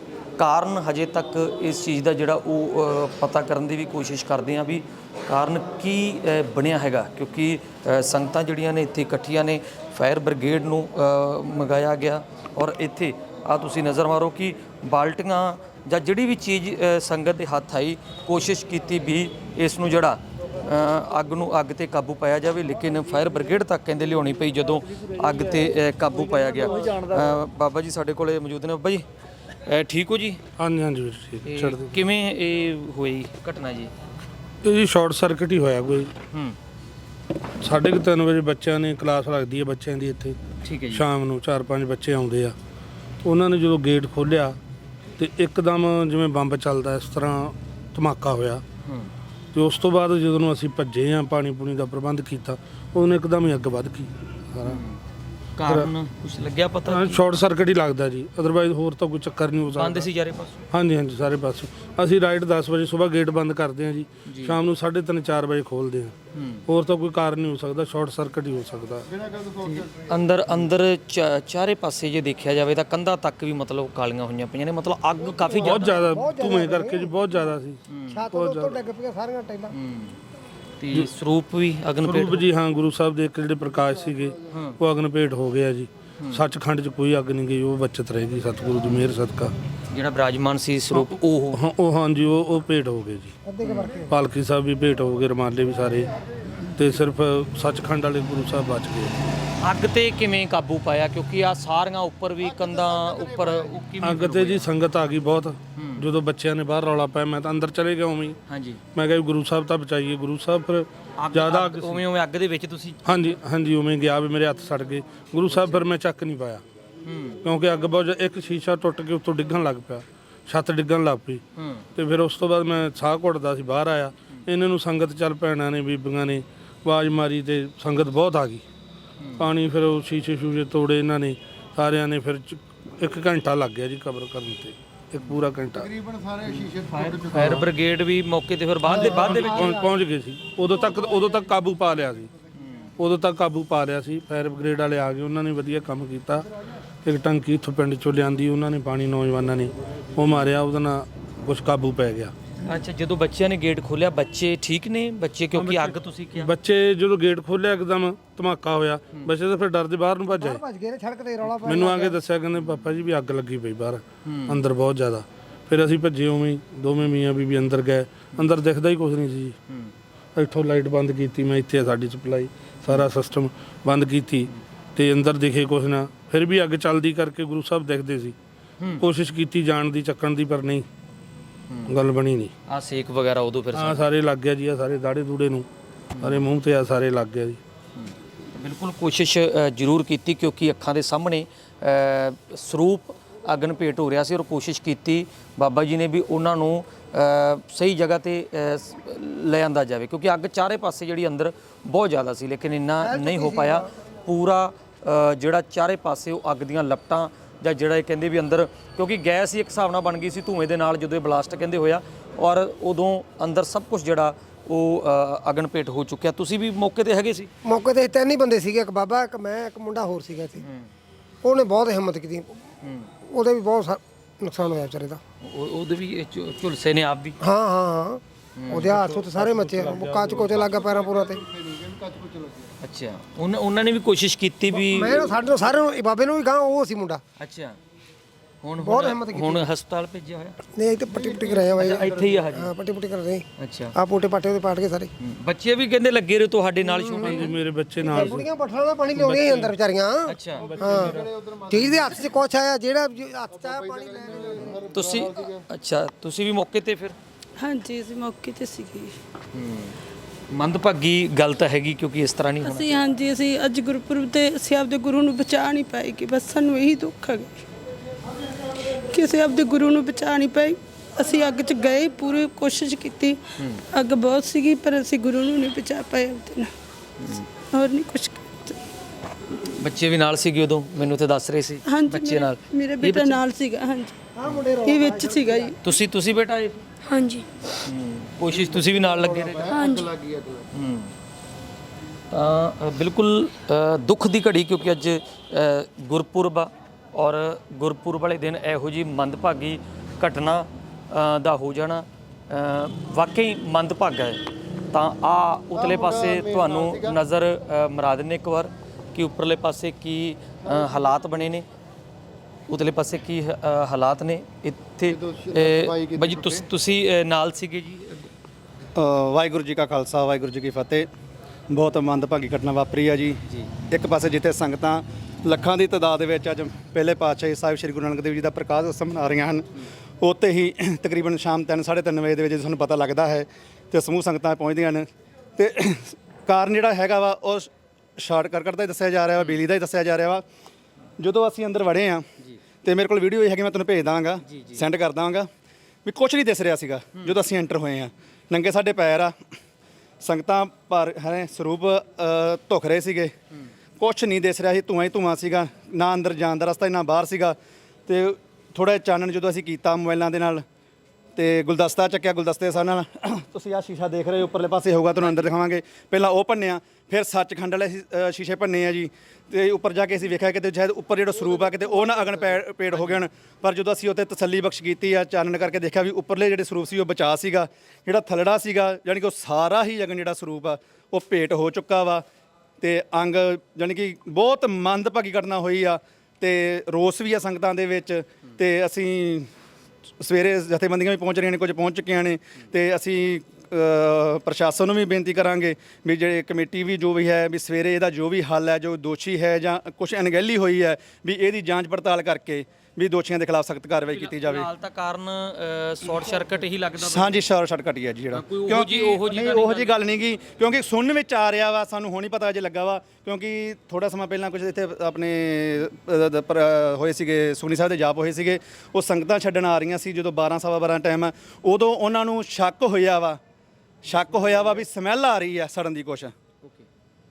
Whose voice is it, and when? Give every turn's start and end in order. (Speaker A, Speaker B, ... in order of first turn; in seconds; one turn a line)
Speaker A: 0.4-29.1
Speaker A: 29.6-30.4
Speaker B: 30.6-31.9
Speaker A: 31.4-33.9
Speaker B: 34.6-36.1
Speaker B: 37.6-40.4
Speaker A: 40.6-41.1
Speaker B: 40.9-42.5
Speaker B: 43.2-44.6
Speaker B: 45.2-48.6
Speaker A: 48.8-49.1
Speaker B: 49.5-54.8
Speaker A: 54.6-55.0
Speaker A: 55.6-57.2
Speaker B: 56.9-60.1
Speaker A: 59.8-60.7
Speaker B: 60.7-66.1
Speaker A: 64.3-64.6
Speaker A: 66.3-66.6
Speaker B: 66.7-69.1
Speaker A: 69.6-76.1
Speaker B: 75.6-77.8
Speaker C: 75.7-77.1
Speaker A: 77.9-78.2
Speaker C: 78.1-79.7
Speaker B: 78.3-78.8
Speaker A: 79.7-80.2
Speaker A: 80.8-82.4
Speaker B: 82.0-89.5
Speaker A: 84.5-84.8
Speaker A: 89.9-91.6
Speaker B: 90.9-93.3
Speaker C: 93.5-94.2
Speaker A: 93.6-93.9
Speaker B: 94.1-96.1
Speaker B: 96.8-99.2
Speaker A: 99.6-104.7
Speaker B: 104.0-108.4
Speaker A: 105.8-106.0
Speaker A: 108.5-108.8
Speaker B: 109.0-112.0
Speaker A: 111.2-113.4
Speaker B: 113.1-116.6
Speaker A: 115.5-115.8
Speaker A: 117.0-117.4
Speaker B: 117.4-121.4
Speaker A: 121.6-121.8
Speaker B: 122.0-128.6
Speaker A: 129.2-129.5
Speaker B: 129.4-136.0
Speaker A: 136.4-139.8
Speaker B: 138.9-142.3
Speaker A: 142.6-142.9
Speaker B: 143.0-146.5
Speaker B: 147.1-152.3
Speaker A: 152.6-156.5
Speaker B: 155.5-160.6
Speaker C: 160.3-162.2
Speaker B: 161.6-169.6
Speaker A: 162.6-162.9
Speaker A: 164.2-164.6
Speaker B: 170.4-178.3
Speaker B: 179.0-180.9
Speaker B: 181.9-182.5
Speaker A: 182.7-184.0
Speaker B: 183.7-185.7
Speaker A: 186.2-186.5
Speaker B: 186.2-187.6
Speaker A: 188.0-217.5
Speaker C: 203.0-203.9
Speaker C: 217.6-220.6
Speaker A: 220.6-220.9
Speaker C: 221.4-222.5
Speaker A: 222.8-223.1
Speaker C: 223.2-225.2
Speaker A: 225.4-227.4
Speaker C: 227.4-231.6
Speaker A: 228.6-229.0
Speaker B: 228.8-230.6
Speaker A: 232.8-235.3
Speaker C: 234.7-237.2
Speaker A: 237.4-237.8
Speaker A: 238.6-240.6
Speaker C: 238.8-239.7
Speaker C: 240.8-243.4
Speaker A: 241.7-242.7
Speaker A: 243.6-243.9
Speaker C: 244.0-245.1
Speaker A: 245.2-247.5
Speaker C: 246.9-254.9
Speaker B: 247.2-248.5
Speaker B: 249.1-249.7
Speaker A: 250.3-251.2
Speaker B: 250.8-251.2
Speaker A: 254.8-257.2
Speaker D: 257.6-259.2
Speaker A: 259.5-260.0
Speaker A: 260.5-263.0
Speaker D: 262.6-267.6
Speaker D: 268.9-273.4
Speaker D: 273.9-276.7
Speaker A: 277.2-277.5
Speaker D: 277.7-278.8
Speaker A: 279.6-283.4
Speaker D: 281.9-284.2
Speaker C: 284.4-285.8
Speaker D: 284.8-285.8
Speaker A: 285.8-286.8
Speaker D: 287.0-287.5
Speaker A: 287.8-289.9
Speaker D: 289.7-290.2
Speaker A: 290.7-291.1
Speaker A: 292.3-311.7
Speaker A: 312.7-318.3
Speaker E: 318.9-321.1
Speaker E: 321.7-329.7
Speaker E: 330.2-340.4
Speaker E: 341.2-342.3
Speaker E: 342.8-345.5
Speaker A: 344.4-344.9
Speaker E: 346.1-349.4
Speaker E: 350.2-353.3
Speaker E: 354.0-357.6
Speaker E: 358.1-360.6
Speaker E: 361.4-382.2
Speaker A: 365.2-365.5
Speaker E: 382.8-389.5
Speaker E: 390.2-404.7
Speaker A: 404.1-407.4
Speaker E: 407.0-423.4
Speaker A: 408.3-409.9
Speaker E: 424.1-426.3